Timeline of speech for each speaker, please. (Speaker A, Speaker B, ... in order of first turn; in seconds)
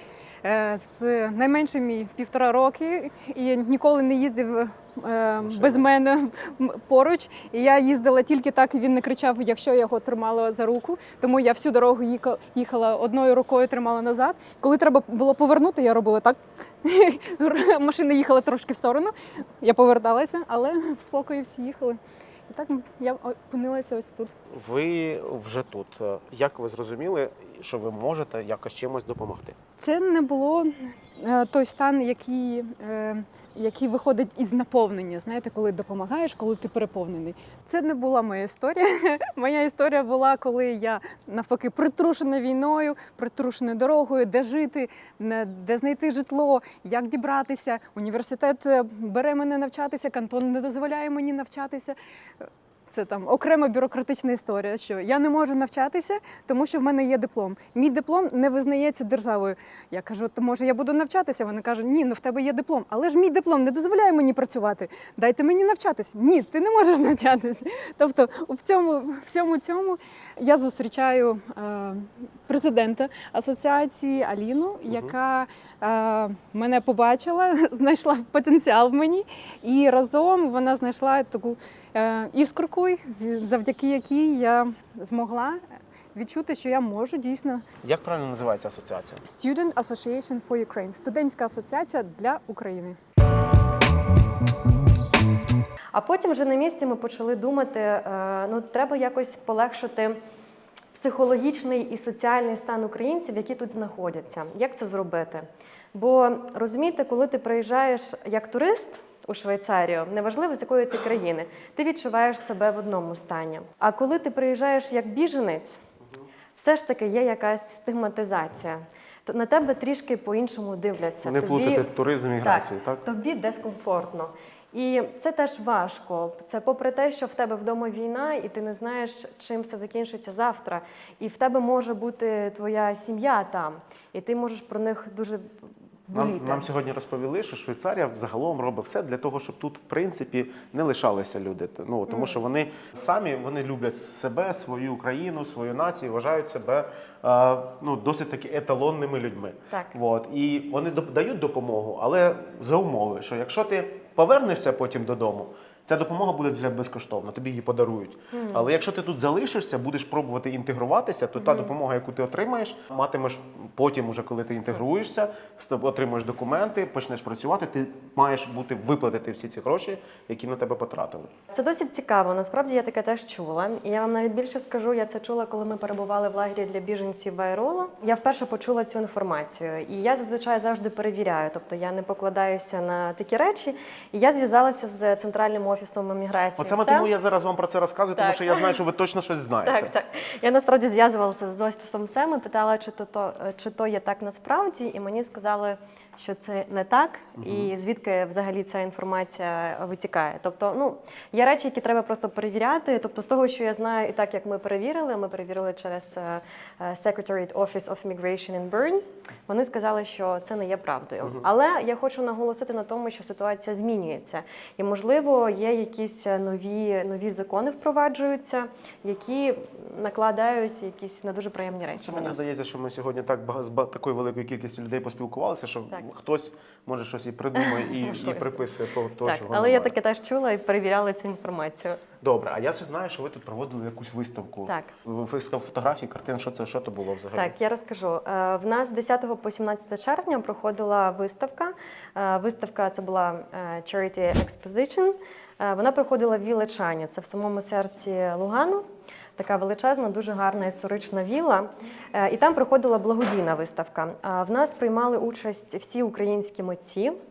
Speaker A: 0.4-24.3, 29.8-52.0, 52.9-85.6, 86.1-87.7, 89.3-93.0
Speaker B: 5.4-5.9, 24.5-29.6, 74.9-75.2, 87.8-89.2, 121.2-123.0, 136.1-171.3, 186.6-189.9, 197.4-197.7, 221.9-229.9, 232.2-237.5
Speaker C: 95.9-100.2, 100.9-115.8, 116.5-121.9, 122.4-135.5, 136.1-136.7, 142.1-142.4, 149.7-150.0, 158.3-158.7, 161.4-161.7, 171.5-187.1, 188.2-188.8, 189.6-222.4, 227.6-228.6, 229.2-232.0, 234.7-234.9, 237.3-248.8, 249.4-257.1